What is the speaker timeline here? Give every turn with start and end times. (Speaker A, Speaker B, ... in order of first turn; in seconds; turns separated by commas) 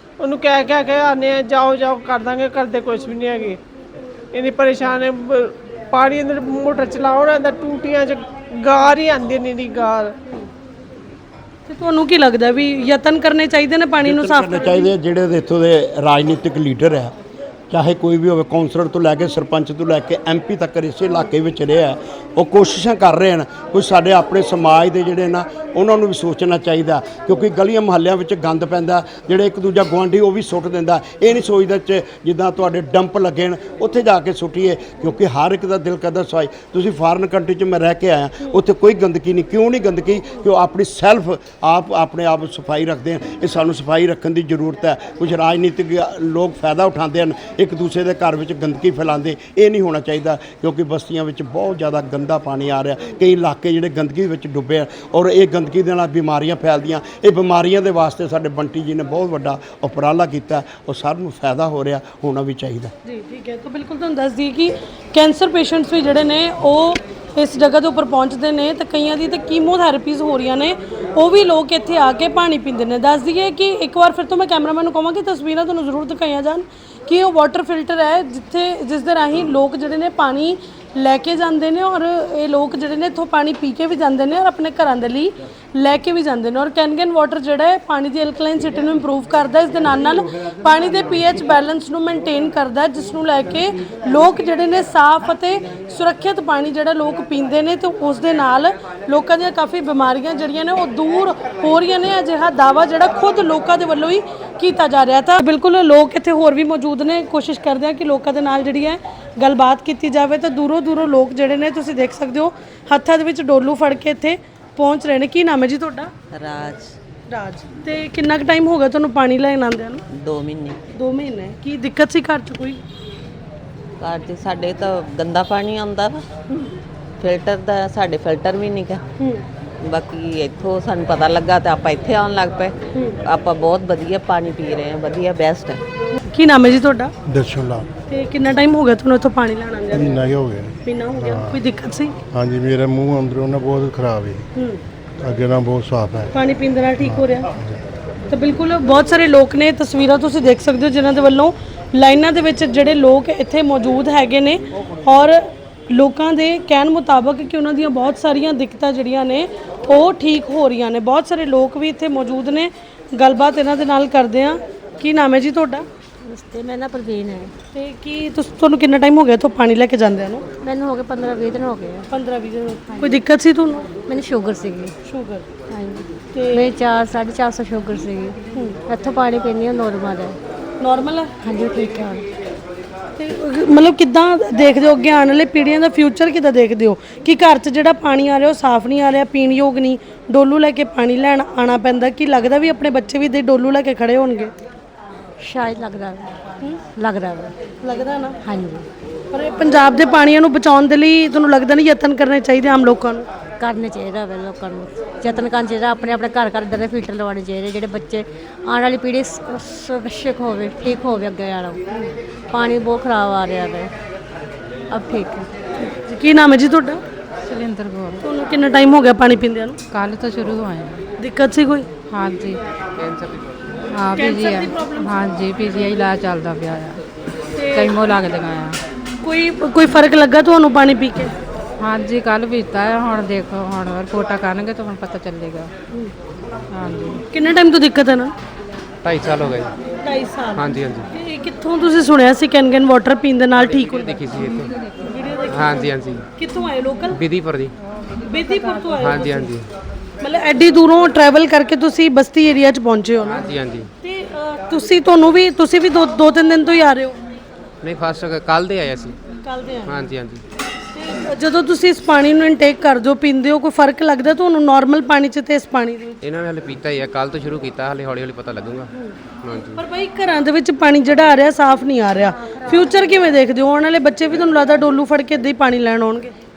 Speaker A: 0.2-3.6, Speaker A: 4.3-10.1, Speaker B: 11.7-14.9, Speaker C: 14.0-17.1, Speaker C: 17.7-62.9, Speaker B: 63.0-116.1, Speaker D: 116.3-116.9, Speaker B: 117.3-120.0, Speaker D: 120.1-120.8, Speaker B: 120.9-122.8, Speaker D: 124.0-126.2, Speaker D: 127.2-129.0, Speaker D: 129.8-135.8, Speaker B: 136.2-137.1, Speaker E: 137.3-137.9, Speaker B: 138.1-140.3, Speaker E: 139.9-140.7, Speaker B: 140.8-142.2, Speaker E: 141.3-141.6, Speaker E: 142.3-144.4, Speaker B: 144.5-144.8, Speaker E: 145.2-146.3, Speaker B: 146.3-147.5, Speaker B: 148.3-165.8, Speaker F: 166.3-167.5, Speaker B: 167.7-170.4, Speaker F: 170.6-172.1, Speaker B: 172.1-173.9, Speaker F: 172.9-173.2, Speaker F: 174.1-174.9, Speaker B: 175.0-175.4, Speaker F: 175.7-180.3, Speaker B: 176.3-176.7, Speaker B: 180.8-181.3, Speaker F: 181.4-182.2, Speaker B: 183.2-194.5, Speaker F: 195.4-196.3, Speaker F: 196.9-197.5, Speaker B: 197.8-198.4, Speaker F: 198.4-198.8, Speaker B: 199.3-203.3, Speaker F: 203.6-211.8, Speaker F: 212.5-213.9, Speaker F: 214.9-215.4, Speaker B: 215.8-217.0, Speaker G: 217.4-218.2, Speaker B: 218.2-219.8, Speaker G: 219.9-221.0, Speaker B: 221.2-221.9, Speaker G: 222.1-222.6, Speaker H: 223.0-223.5, Speaker G: 223.9-227.0, Speaker B: 224.2-225.1, Speaker B: 227.5-228.0, Speaker G: 227.7-228.8, Speaker B: 229.2-231.3, Speaker G: 231.8-235.7, Speaker G: 236.7-237.2, Speaker B: 237.3-238.3, Speaker H: 239.0-239.7, Speaker B: 240.0-244.1, Speaker H: 240.6-241.1, Speaker H: 243.7-244.7, Speaker B: 245.1-247.2, Speaker H: 245.5-246.2, Speaker H: 247.1-247.7, Speaker B: 248.3-249.5, Speaker H: 249.0-249.7, Speaker B: 250.2-253.4, Speaker H: 253.3-253.9, Speaker B: 254.0-257.2, Speaker H: 257.8-259.1, Speaker B: 259.4-260.1, Speaker H: 259.9-260.4, Speaker B: 260.9-266.2, Speaker H: 266.2-268.9, Speaker H: 269.4-269.8, Speaker B: 269.8-276.3